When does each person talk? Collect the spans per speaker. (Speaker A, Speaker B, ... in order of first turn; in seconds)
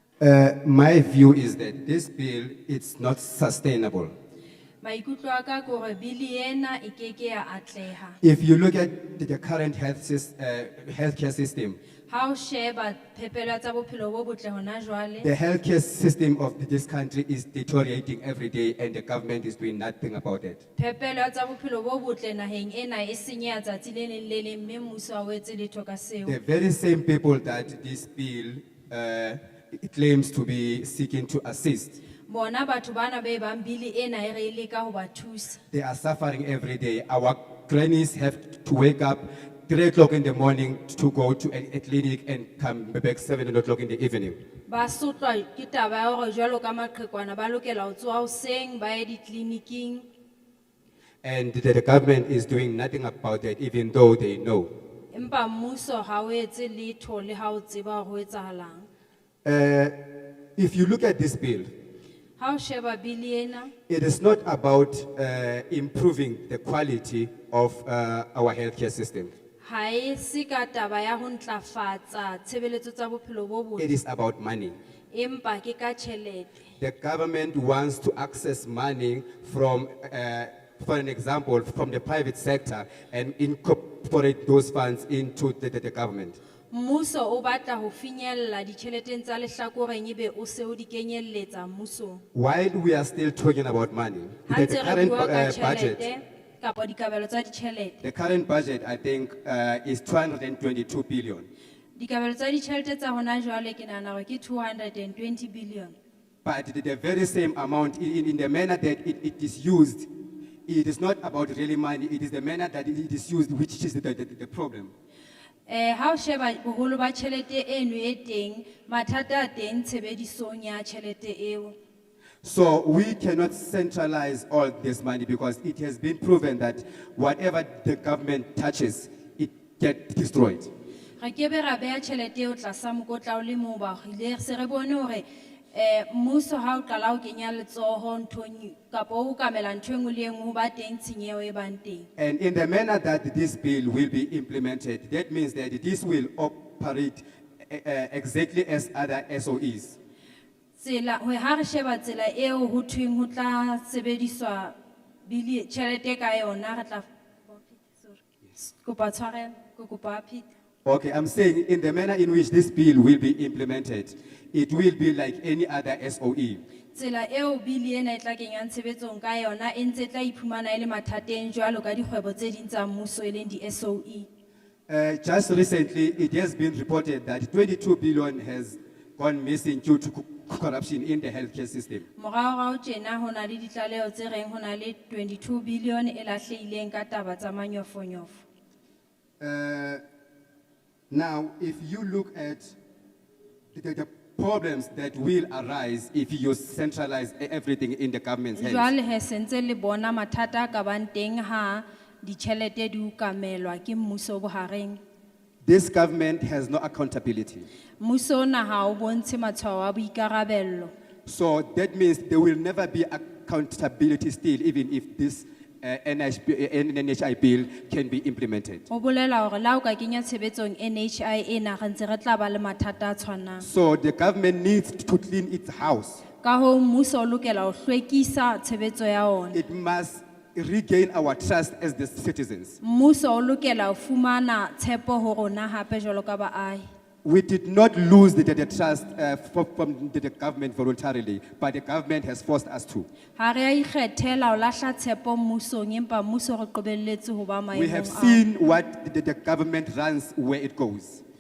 Speaker A: 0.2-4.1, 8.2-11.8, 15.2-20.6, 26.2-32.0, 35.7-44.4, 51.2-54.7, 59.5-60.0, 60.6-61.7, 63.9-69.3, 73.8-74.8, 76.8-86.4, 92.3-96.1, 98.0-101.5, 106.5-110.1, 110.7-114.9, 122.4-130.7, 142.2-150.0, 160.8-166.6, 174.9-182.1, 189.4-190.0, 191.1-192.8, 193.7-198.9, 205.7-207.7, 211.3-218.8, 223.6-226.2, 229.5-232.8, 237.2-243.1, 247.7-251.2
Speaker B: 4.8-8.2, 12.1-15.3, 20.8-26.4, 32.3-35.6, 44.7-50.1, 55.1-58.9, 62.4-63.7, 69.6-73.9, 75.1-76.6, 86.7-92.2, 94.5-98.0, 102.0-106.0, 115.7-121.8, 131.2-142.1, 150.8-160.5, 166.9-174.3, 182.2-188.4, 198.6-205.0, 208.0-210.9, 218.9-223.7, 226.4-229.6, 232.8-236.8, 243.4-248.4